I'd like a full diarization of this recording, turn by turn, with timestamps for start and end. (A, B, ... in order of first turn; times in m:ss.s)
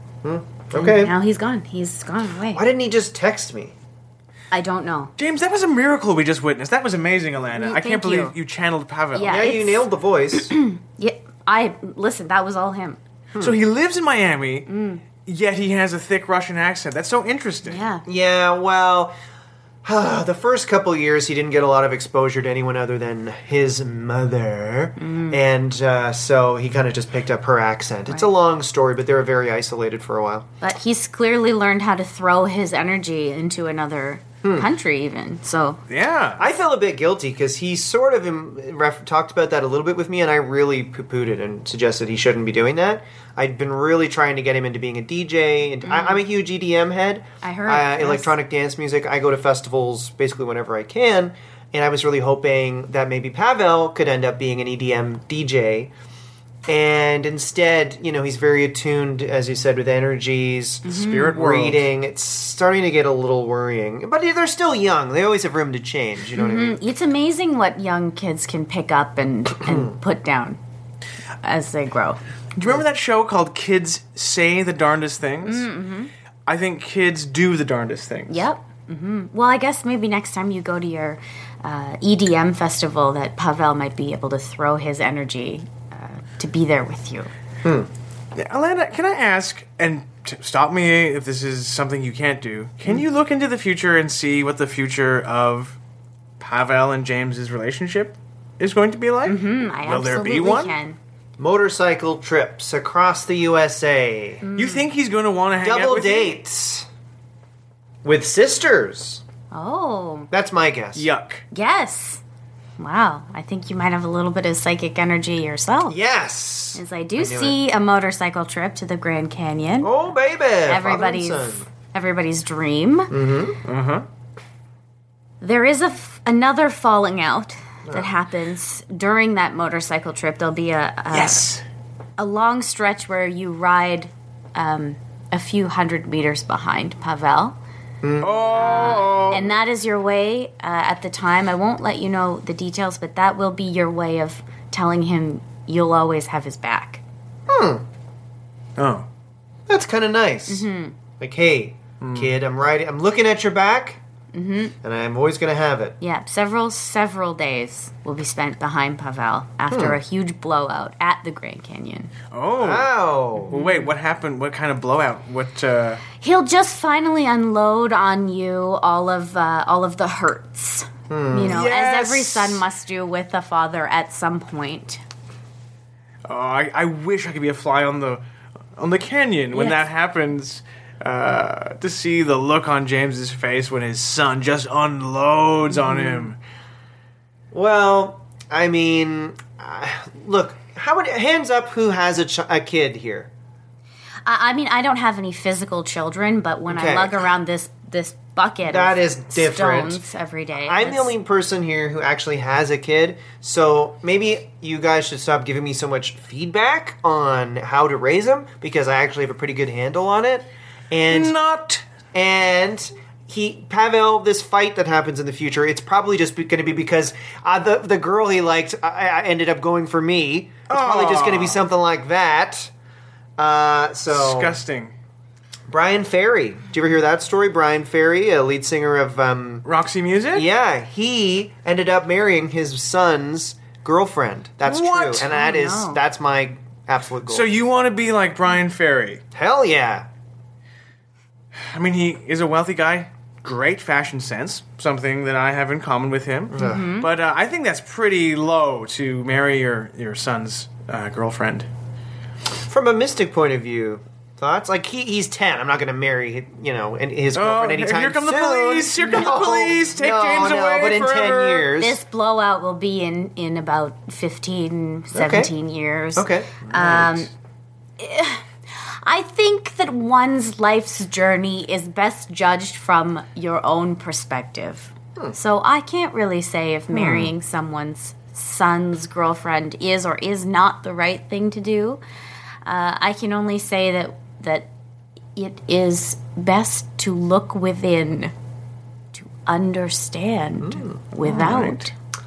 0:00.2-0:01.1 A
0:00.7-0:02.6 B
0:02.5-0:03.8 A
0:04.5-0:05.1 B
0:05.2-0:09.3 C
0:07.6-0:08.3 B
0:09.1-0:13.0 B
0:09.2-0:10.5 A
0:13.4-0:14.7 C
0:14.7-0:15.0 B
0:15.2-0:17.9 C
0:17.6-0:18.0 B
0:18.0-0:19.1 A
0:19.8-0:30.5 A
0:25.0-0:25.4 B
0:30.6-0:35.8 B
0:34.4-0:34.7 A
0:35.9-0:36.4 C
0:36.4-0:55.9 A
0:45.8-0:46.2 B
0:47.4-0:48.4 B
0:56.7-1:06.8 A
1:00.8-1:01.4 B
1:00.9-1:01.8 C
1:06.3-1:10.6 B
1:09.6-1:09.9 A
1:11.4-1:12.2 B
1:12.6-1:15.7 C
1:15.4-1:16.1 B
1:16.5-1:18.4 C
1:18.3-1:27.3 B
1:27.6-1:27.9 A
1:28.4-1:35.8 C
1:36.4-1:40.8 C
1:39.3-1:41.0 B
1:41.4-1:44.4 A
1:44.4-1:44.9 B
1:44.6-1:46.4 C
1:45.6-1:46.9 A
1:48.0-1:49.2 A
1:49.5-1:50.3 B
1:50.3-1:51.1 A
1:51.0-1:51.4 C
1:51.5-1:52.2 B
1:52.8-1:56.0 B
1:55.9-1:57.6 A
1:56.7-2:00.0 B
1:59.8-2:01.7 A
2:00.6-2:03.1 B
2:03.1-2:03.6 A
2:03.6-2:04.1 C
2:05.4-2:11.4 B
2:11.1-2:11.6 C
2:12.2-2:17.6 B
2:18.0-2:19.4 A
2:18.2-2:19.4 C
2:18.5-2:27.0 B
2:27.5-2:27.9 A
2:28.8-2:29.1 C
2:29.7-2:30.7 A
2:30.5-2:31.0 B
2:31.2-2:34.0 A
2:32.0-2:32.3 C
2:34.3-2:34.7 B
2:34.8-2:36.0 A
2:36.0-2:42.1 B
2:39.7-2:40.0 A
2:42.3-2:42.9 C
2:42.6-2:43.6 A
2:43.5-2:46.0 C
2:43.5-2:43.9 B
2:46.2-2:55.0 B
2:51.1-2:51.6 A
2:51.5-2:52.6 C
2:56.3-2:58.2 C
2:58.8-3:06.4 C
3:05.7-3:06.3 B
3:07.5-3:13.3 A
3:14.3-3:21.1 B
3:16.7-3:17.3 A
3:18.6-3:20.0 A
3:20.6-3:31.4 A
3:31.1-3:31.8 C
3:32.1-3:42.7 A
3:40.7-3:41.6 C
3:43.4-3:44.6 A
3:44.1-3:44.9 C
3:45.7-3:49.7 A
3:49.6-3:50.5 C
3:50.3-3:57.5 A
3:54.6-3:55.3 C
3:55.2-3:56.0 B
3:57.3-3:59.2 C
3:59.3-4:00.1 A
4:01.5-4:11.7 C
4:06.5-4:06.9 A
4:06.6-4:07.1 B
4:12.7-4:22.0 A
4:17.3-4:21.7 C
4:21.8-4:27.3 B
4:25.1-4:25.5 A
4:26.2-4:27.1 A
4:28.0-4:42.0 B
4:36.9-4:37.3 C
4:42.6-4:44.7 B
4:45.4-4:48.3 B
4:49.1-4:51.9 B
4:50.6-4:51.0 A
4:51.2-4:51.9 C